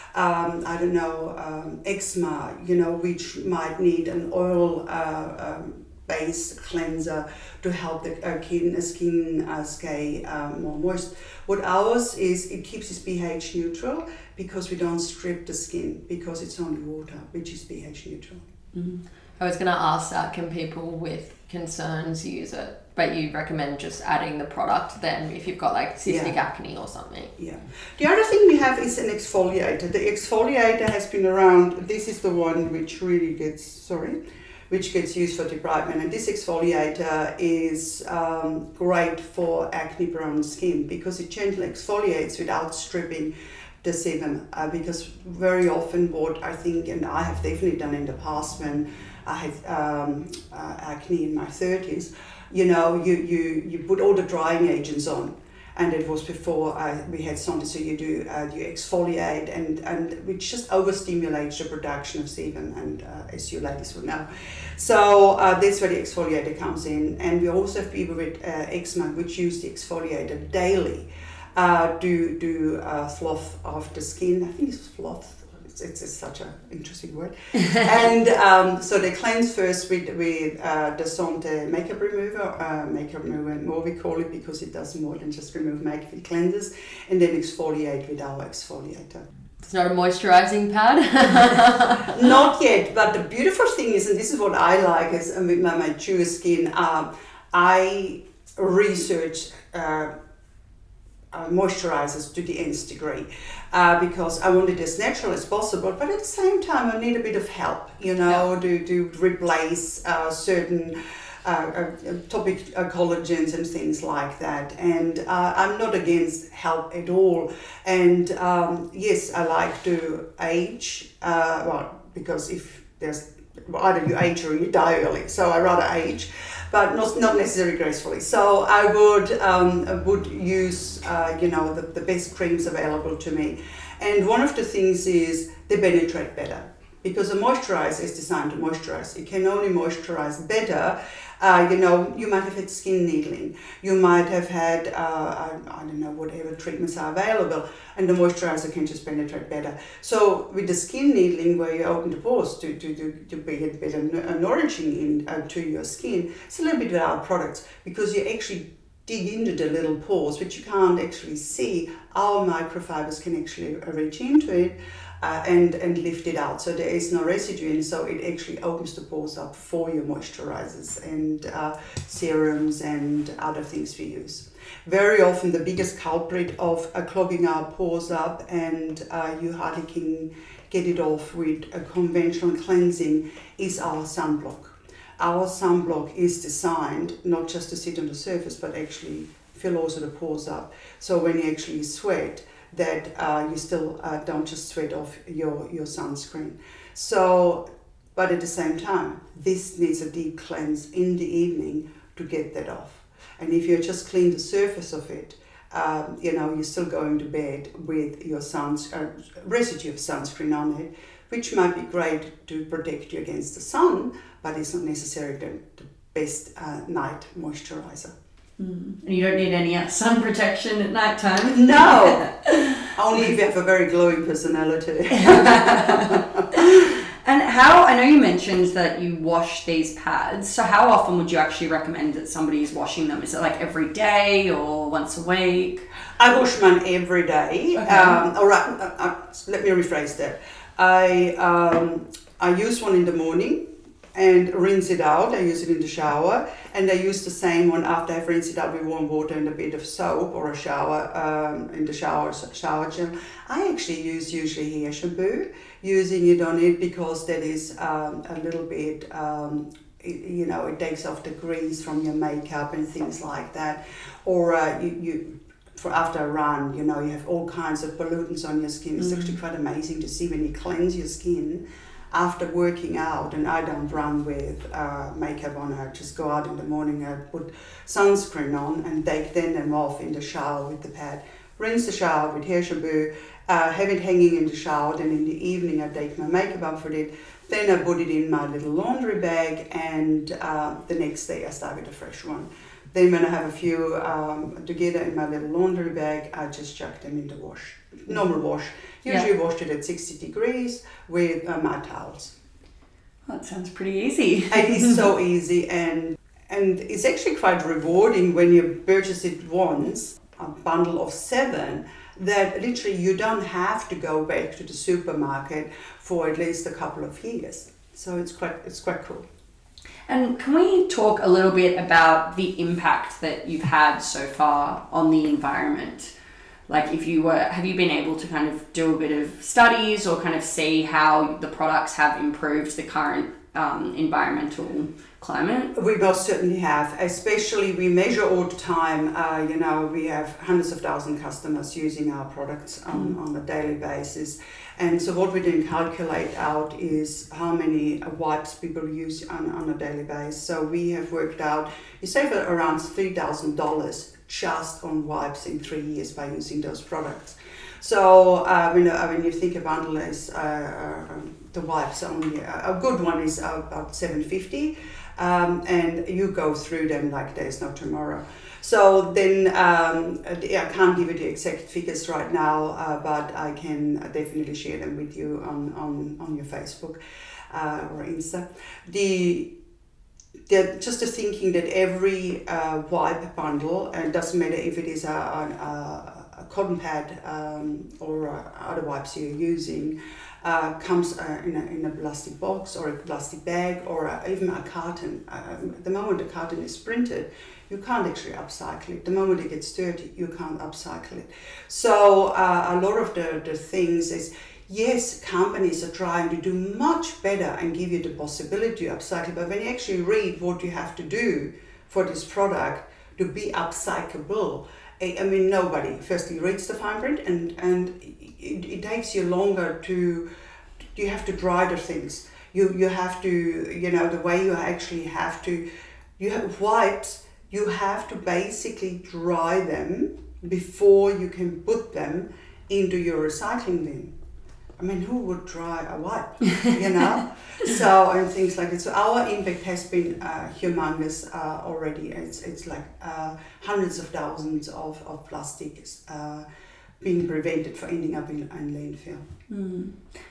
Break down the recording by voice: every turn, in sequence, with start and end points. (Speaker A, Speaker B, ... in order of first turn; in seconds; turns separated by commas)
Speaker A: 0.1-18.4, Speaker B: 18.7-19.0, Speaker C: 19.4-27.3, Speaker A: 26.1-26.4, Speaker A: 27.4-34.2, Speaker A: 34.7-43.3, Speaker A: 43.8-89.2, Speaker C: 89.6-92.1, Speaker A: 92.1-100.1, Speaker A: 101.3-197.6, Speaker A: 198.1-218.1, Speaker B: 218.6-222.8, Speaker A: 221.5-222.3, Speaker A: 222.9-226.8, Speaker B: 225.2-235.8, Speaker A: 236.2-243.6, Speaker B: 237.8-238.2, Speaker A: 244.1-302.3, Speaker B: 269.0-269.3, Speaker B: 303.2-305.1, Speaker A: 304.5-319.2, Speaker B: 320.1-326.1, Speaker B: 326.7-335.7, Speaker A: 335.7-377.0, Speaker A: 377.5-379.5, Speaker A: 380.5-420.2, Speaker A: 420.9-425.6, Speaker A: 426.2-434.1, Speaker A: 434.8-446.4, Speaker A: 447.0-449.3, Speaker B: 449.5-450.0